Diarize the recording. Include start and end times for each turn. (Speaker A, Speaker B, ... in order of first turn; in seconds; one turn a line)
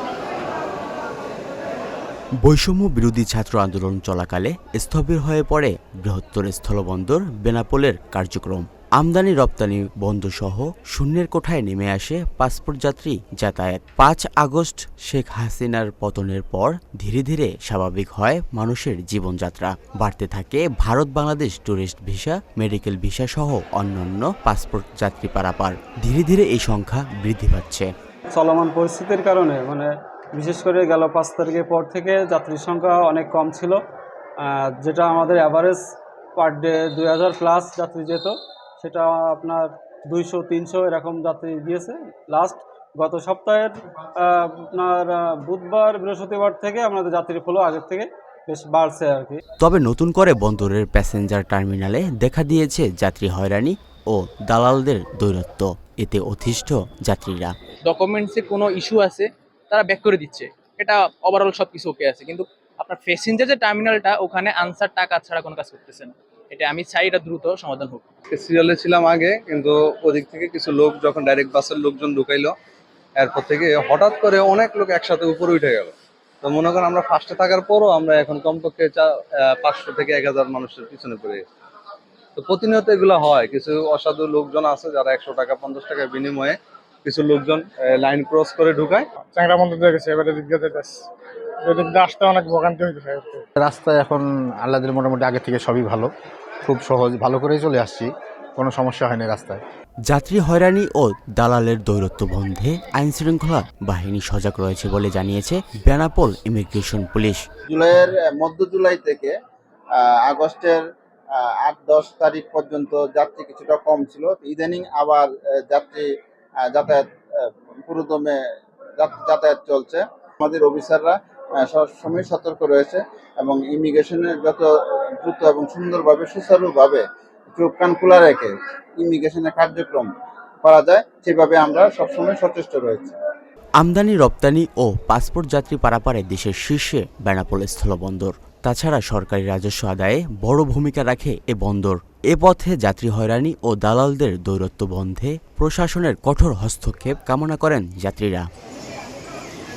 Speaker A: 2.4-27.9
Speaker B: 28.3-33.8
Speaker B: 34.4-35.8
Speaker B: 36.4-49.4
Speaker A: 49.6-57.5
Speaker C: 57.9-68.0
Speaker D: 68.3-72.5
Speaker D: 73.2-75.9
Speaker D: 76.4-81.4
Speaker D: 82.4-89.0
Speaker E: 89.3-90.9
Speaker E: 91.7-93.4
Speaker F: 93.6-96.1
Speaker F: 96.7-98.0
Speaker F: 98.6-99.6
Speaker A: 100.1-107.4
Speaker G: 107.7-109.3
Speaker G: 110.0-110.8
Speaker G: 111.3-116.0
Speaker G: 116.7-117.1
Speaker G: 117.9-118.4
Speaker G: 119.0-124.7
Speaker G: 125.2-127.0
Speaker G: 127.5-130.1
Speaker G: 130.6-133.1
Speaker A: 133.8-148.5